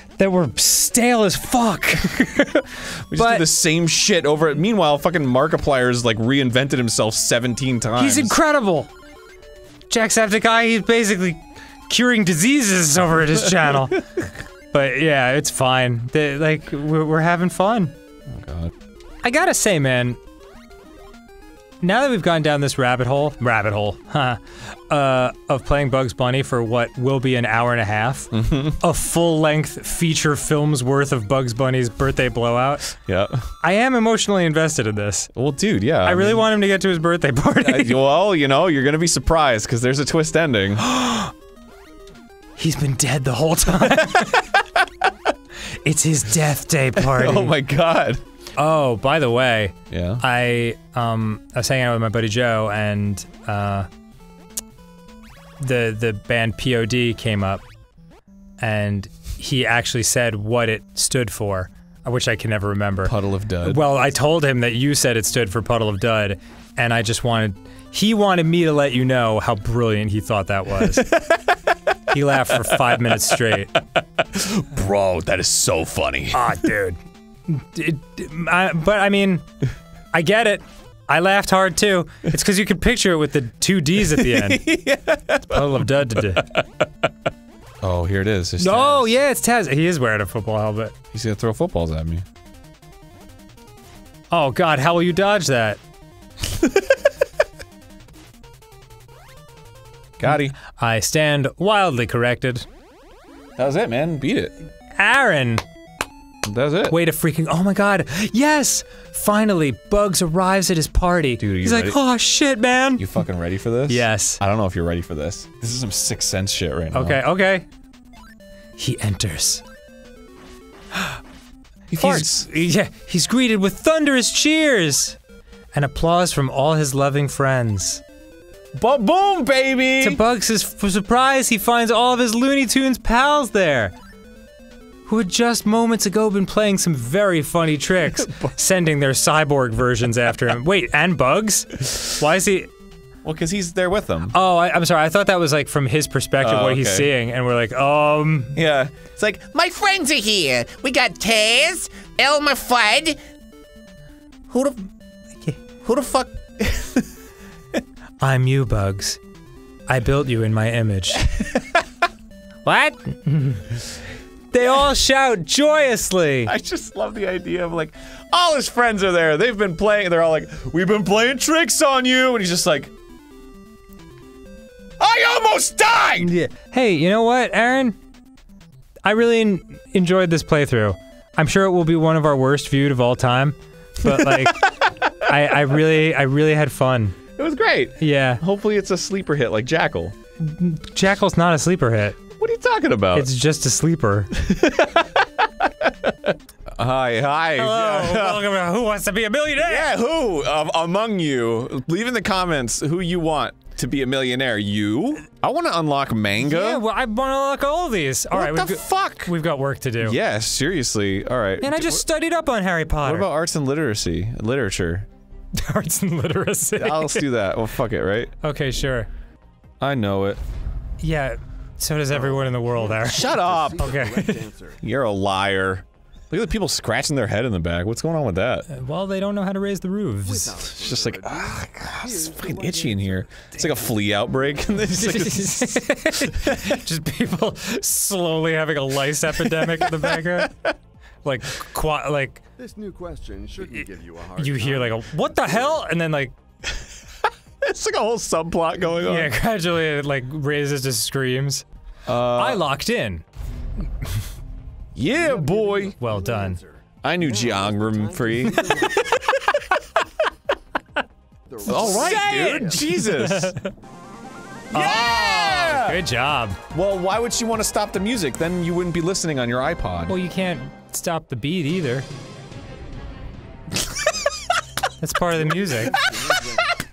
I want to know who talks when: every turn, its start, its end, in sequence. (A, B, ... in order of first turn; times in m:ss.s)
0:00.2-0:03.5 A
0:03.1-0:08.4 B
0:08.0-0:08.9 A
0:09.9-0:17.9 A
0:18.3-0:18.7 B
0:19.2-0:20.2 A
0:21.8-0:33.0 A
0:28.3-0:28.8 B
0:33.0-0:33.5 B
0:33.6-0:35.3 A
0:35.3-0:36.5 B
0:36.0-0:38.0 A
0:37.6-0:40.8 B
0:40.8-0:41.3 A
0:42.6-0:44.6 A
0:43.8-0:45.1 B
0:45.8-0:47.5 A
0:47.0-0:48.2 B
0:48.6-0:53.9 A
0:49.9-0:50.2 B
0:55.6-0:57.6 A
0:58.6-1:11.1 A
1:03.0-1:03.8 B
1:10.8-1:16.7 B
1:12.1-1:13.7 A
1:16.3-1:19.4 A
1:20.1-1:24.6 A
1:24.1-1:27.1 B
1:25.5-1:26.5 A
1:27.8-1:29.1 B
1:28.6-1:30.9 A
1:31.1-1:32.2 B
1:34.3-1:35.8 A
1:36.6-1:36.9 B
1:40.2-1:40.5 B
1:40.3-1:42.7 A
1:43.6-1:44.5 B
1:44.9-1:45.6 A
1:46.4-1:47.0 B
1:46.9-1:53.2 A
1:51.4-1:52.0 B
1:53.0-1:57.2 B
1:53.9-1:54.4 A
1:56.9-1:57.7 A
1:58.8-1:59.6 A
2:00.9-2:01.2 A
2:01.9-2:02.5 B
2:02.0-2:05.2 A
2:05.7-2:08.0 A
2:08.7-2:10.2 B
2:10.0-2:13.9 A
2:15.1-2:22.7 A
2:18.1-2:18.5 B
2:23.2-2:24.3 B
2:24.3-2:28.6 A
2:26.4-2:27.1 B
2:28.5-2:30.2 B
2:29.7-2:33.2 C
2:30.8-2:31.3 B
2:32.2-2:32.8 B
2:34.5-2:34.8 B
2:35.8-2:37.1 B
2:38.2-2:39.2 A
2:39.9-2:41.3 A
2:41.3-2:41.8 B
2:42.6-2:43.7 A
2:44.5-2:46.5 A
2:46.4-2:52.9 B
2:55.0-2:56.3 B
2:56.2-2:58.0 A
2:59.0-3:07.2 A
3:04.0-3:05.5 B
3:07.4-3:10.2 B
3:08.0-3:08.4 A
3:10.4-3:12.2 A
3:12.4-3:13.3 B
3:13.1-3:14.3 A
3:14.3-3:18.5 B
3:17.6-3:19.9 A
3:19.6-3:26.8 B
3:26.4-3:30.2 A
3:28.3-3:29.3 B
3:30.0-3:32.0 B
3:31.6-3:33.3 A
3:33.0-3:35.1 B
3:35.5-3:37.3 A
3:36.8-3:38.3 B
3:38.4-3:39.1 A
3:39.8-3:40.4 B
3:41.0-3:44.5 A
3:42.7-3:44.8 D
3:43.0-3:44.0 B
3:44.8-3:48.6 B
3:48.7-3:50.7 A
3:50.2-3:53.9 D
3:50.7-3:56.8 B
3:54.9-4:00.5 A
3:59.4-4:00.7 B
4:01.2-4:02.4 A
4:02.6-4:05.8 D
4:03.7-4:06.3 A
4:07.6-4:09.3 B
4:09.0-4:11.6 A
4:12.0-4:12.6 B
4:12.2-4:13.2 A
4:14.9-4:16.0 B
4:15.1-4:19.1 D
4:16.0-4:16.6 A
4:17.0-4:19.0 B
4:21.5-4:22.8 D
4:21.6-4:23.7 A
4:21.6-4:23.5 B
4:24.7-4:26.0 B
4:24.7-4:26.6 A
4:26.7-4:30.2 B
4:30.1-4:32.1 A
4:35.0-4:36.0 A
4:35.4-4:36.8 D